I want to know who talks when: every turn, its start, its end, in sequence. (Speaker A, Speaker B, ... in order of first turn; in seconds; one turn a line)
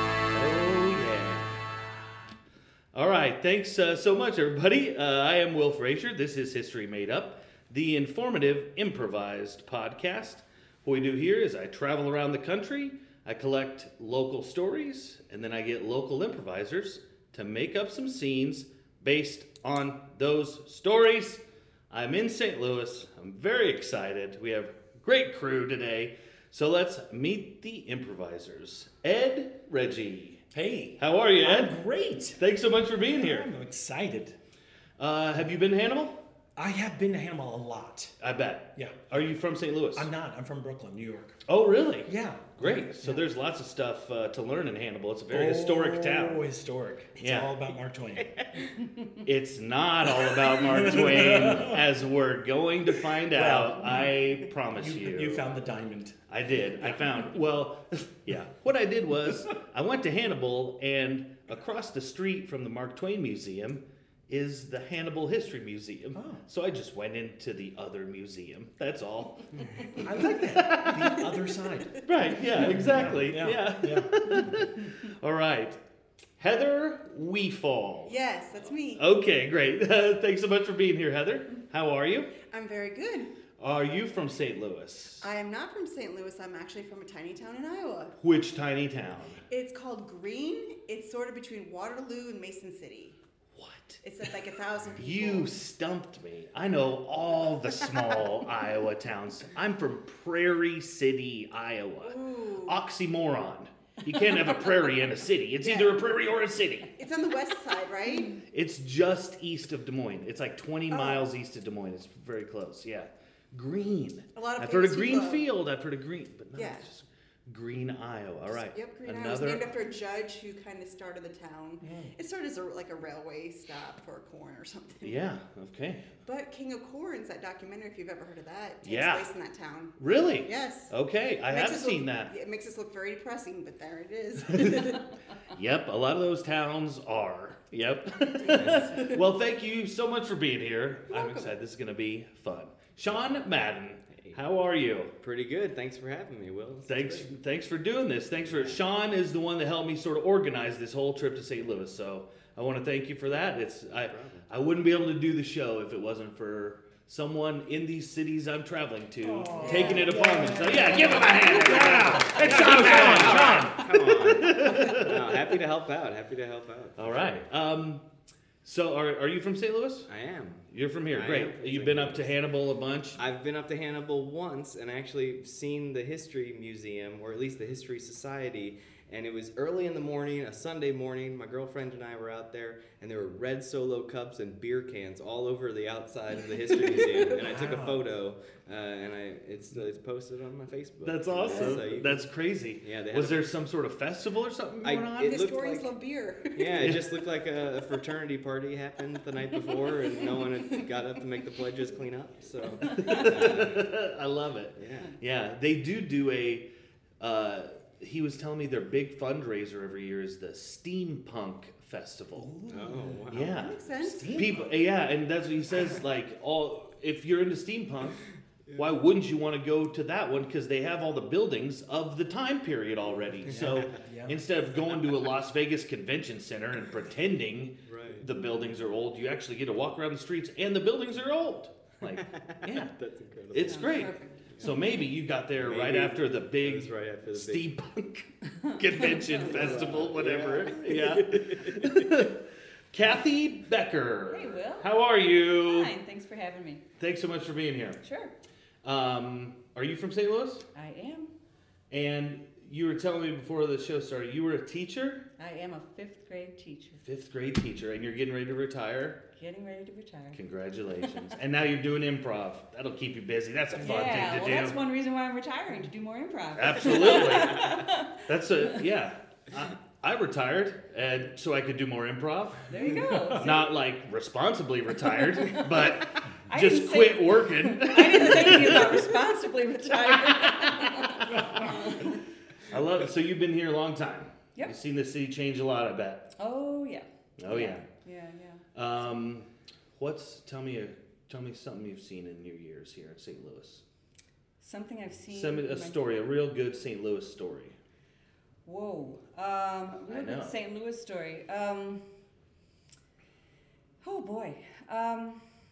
Speaker A: 0.3-1.6
Speaker A: 2.9-30.4
Speaker B: 30.5-32.4
Speaker A: 31.0-31.7
Speaker A: 32.4-33.5
Speaker B: 33.1-34.4
Speaker A: 35.0-36.2
Speaker B: 36.5-38.1
Speaker A: 38.2-40.1
Speaker B: 38.8-39.3
Speaker B: 39.9-41.4
Speaker A: 41.5-46.4
Speaker B: 42.1-43.3
Speaker B: 45.3-48.3
Speaker A: 47.2-47.6
Speaker A: 49.2-55.5
Speaker B: 50.0-51.8
Speaker B: 53.1-56.2
Speaker A: 56.3-71.3
Speaker B: 66.1-66.4
Speaker C: 69.6-70.0
Speaker B: 70.0-74.5
Speaker A: 72.0-75.8
Speaker A: 76.4-78.1
Speaker D: 78.1-79.0
Speaker A: 79.0-82.3
Speaker D: 82.4-83.3
Speaker A: 83.6-85.2
Speaker D: 85.2-88.2
Speaker A: 88.2-89.4
Speaker D: 89.5-93.2
Speaker A: 93.5-94.0
Speaker D: 94.0-95.5
Speaker A: 95.0-106.9
Speaker D: 102.0-102.8
Speaker D: 105.6-106.2
Speaker D: 107.0-108.4
Speaker A: 108.5-119.6
Speaker D: 110.9-111.2
Speaker D: 114.3-115.5
Speaker D: 116.5-116.9
Speaker D: 118.6-125.2
Speaker B: 121.8-122.1
Speaker A: 125.0-126.1
Speaker D: 126.2-130.9
Speaker A: 128.8-129.3
Speaker A: 130.0-132.3
Speaker D: 131.5-135.1
Speaker A: 134.6-134.9
Speaker A: 135.5-145.1
Speaker D: 138.4-139.2
Speaker C: 138.5-138.9
Speaker D: 141.1-141.6
Speaker C: 145.2-147.3
Speaker A: 146.9-165.2
Speaker C: 148.4-148.8
Speaker C: 153.2-154.5
Speaker B: 159.2-164.1
Speaker D: 159.6-161.9
Speaker C: 161.9-167.3
Speaker A: 167.0-168.0
Speaker A: 168.6-170.1
Speaker C: 170.1-172.4
Speaker A: 170.7-173.2
Speaker C: 173.2-192.3
Speaker B: 187.4-188.0
Speaker A: 191.0-195.4
Speaker C: 192.8-193.5
Speaker C: 194.8-195.9
Speaker D: 195.2-197.2
Speaker C: 196.5-203.9
Speaker D: 199.7-200.8
Speaker E: 202.8-203.2
Speaker A: 202.9-206.7
Speaker C: 204.8-205.2
Speaker A: 207.2-212.6
Speaker B: 212.3-213.2
Speaker C: 212.7-213.7
Speaker A: 213.3-218.2
Speaker D: 213.6-214.4
Speaker B: 214.0-214.7
Speaker A: 218.7-232.9
Speaker C: 223.0-223.9
Speaker B: 223.4-224.4
Speaker C: 227.8-228.3
Speaker C: 232.1-234.1
Speaker A: 233.5-245.9
Speaker E: 233.7-234.7
Speaker C: 235.5-237.7
Speaker E: 238.5-239.5
Speaker C: 239.0-242.1
Speaker E: 244.3-244.9
Speaker E: 245.6-246.8
Speaker A: 247.0-248.0
Speaker E: 248.0-248.3
Speaker A: 248.8-250.6
Speaker E: 250.7-251.3
Speaker A: 251.9-255.2
Speaker E: 255.4-257.0
Speaker A: 257.0-259.2
Speaker E: 259.3-260.4
Speaker A: 260.3-264.8
Speaker E: 263.8-268.2
Speaker A: 266.5-279.1
Speaker E: 272.7-273.7
Speaker E: 276.5-282.2
Speaker A: 281.3-281.8
Speaker A: 282.7-286.3
Speaker E: 286.4-288.6
Speaker A: 287.4-287.9
Speaker A: 288.7-293.8
Speaker E: 294.6-296.0
Speaker A: 295.3-297.8
Speaker E: 298.6-302.0
Speaker A: 300.1-300.6
Speaker E: 304.0-305.4